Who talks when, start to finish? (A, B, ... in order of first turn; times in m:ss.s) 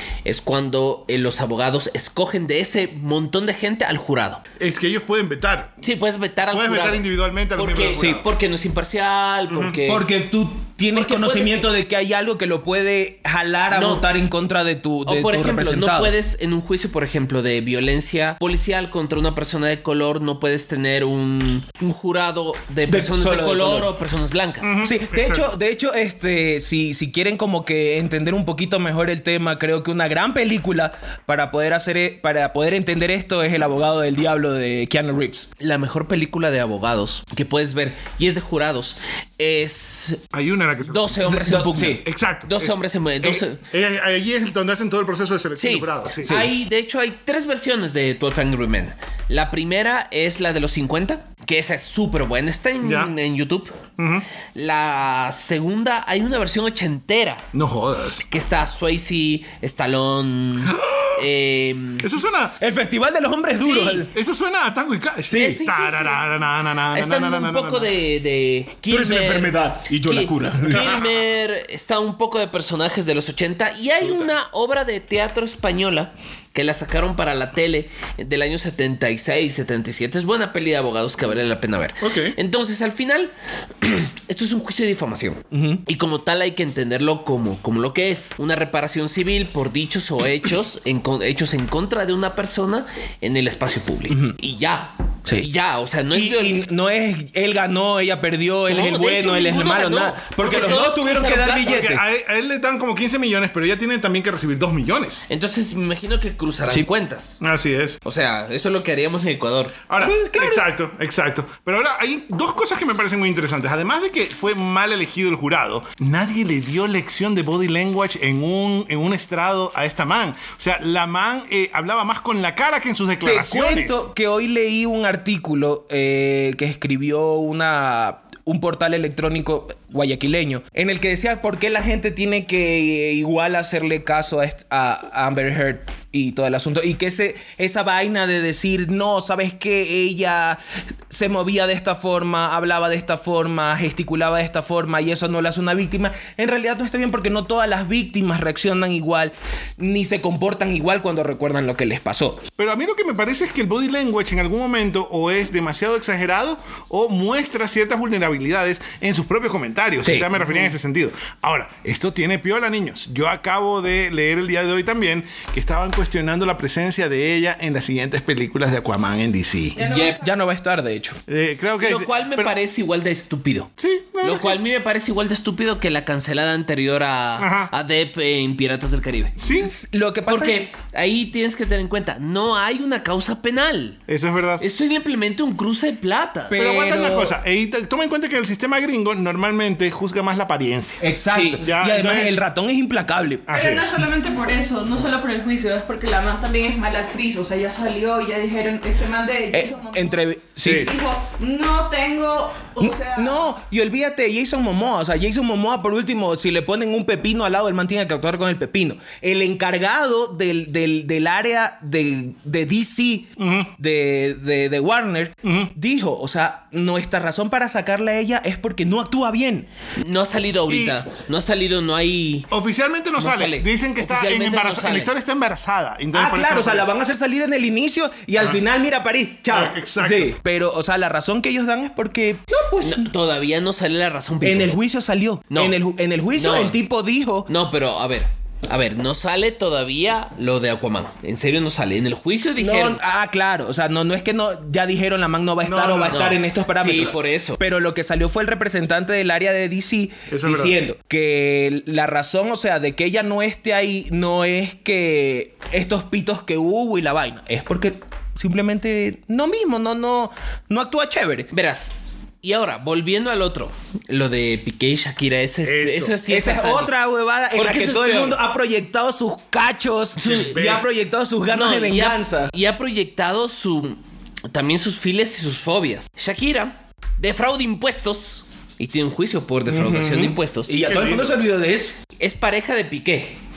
0:00.2-0:04.4 A
0:04.6-0:05.8 B
0:05.8-0:10.0 A
0:06.5-0:08.2 B
0:08.0-0:08.2 C
0:09.5-0:09.8 B
0:09.9-0:16.1 C
0:10.9-0:11.7 A
0:13.7-0:14.0 A
0:15.0-0:24.8 A
0:22.9-0:23.9 C
0:24.6-0:25.5 B
0:24.8-0:35.5 C
0:35.6-0:40.2 A
0:40.3-0:46.4 B
0:40.8-0:43.6 A
0:41.2-0:42.0 C
0:45.6-0:53.7 A
0:46.2-0:46.5 C
0:52.8-0:53.1 B
0:54.0-0:54.2 B
0:54.5-0:57.4 A
0:57.5-0:58.2 B
0:58.3-1:02.1 A
1:00.6-1:01.2 B
1:02.0-1:02.6 B
1:02.6-1:04.1 C
1:03.6-1:04.1 A
1:04.1-1:07.9 B
1:05.3-1:05.6 C
1:05.3-1:06.2 A
1:06.9-1:36.6 A
1:08.9-1:10.9 C
1:10.7-1:11.1 B
1:22.0-1:22.3 B
1:25.5-1:25.8 C
1:34.1-1:34.4 C
1:36.1-1:42.0 C
1:38.7-1:41.8 A
1:40.4-1:40.8 B
1:41.6-1:45.2 B
1:45.3-1:47.4 A
1:47.4-1:48.0 B
1:48.0-1:49.8 A
1:49.9-2:04.0 B
1:50.0-1:50.6 C
2:03.2-2:32.5 C
2:32.6-2:49.8 B
2:49.7-2:50.3 D
2:49.8-2:50.2 A
2:50.2-2:51.2 C
2:51.3-2:52.5 B
2:51.8-2:53.7 A
2:53.8-2:54.6 B
2:54.2-2:59.3 A
2:57.4-2:57.7 B
2:59.4-2:59.7 B
2:59.5-3:00.6 C
3:00.3-3:04.0 A
3:04.1-3:04.6 B
3:04.6-3:06.6 A
3:06.5-3:07.4 C
3:06.5-3:11.0 B
3:11.0-3:13.5 C
3:11.3-3:11.6 A
3:11.6-3:12.4 B
3:13.5-3:13.9 B
3:13.5-3:23.5 D
3:19.5-3:20.9 C
3:20.6-3:20.9 B
3:22.8-3:39.7 C
3:33.4-3:33.7 B
3:35.4-3:35.7 B
3:40.0-3:42.5 A
3:40.7-3:41.0 B
3:42.5-3:46.9 B
3:43.2-3:45.1 A
3:46.1-3:53.1 C
3:49.5-3:50.4 B
3:52.8-3:54.8 A
3:54.4-3:57.5 C
3:55.5-3:55.8 A
3:56.3-3:56.8 A
3:57.5-4:03.0 A
4:02.6-4:21.5 C
4:05.6-4:06.3 B
4:06.1-4:07.6 A
4:10.3-4:10.8 B
4:21.5-4:26.9 A
4:25.6-4:26.2 B
4:26.3-4:32.5 C
4:27.5-4:28.4 A
4:30.2-4:30.6 A
4:30.2-4:30.8 B
4:31.5-4:40.8 A
4:39.7-4:42.0 C
4:40.8-4:41.4 B
4:42.2-4:43.4 A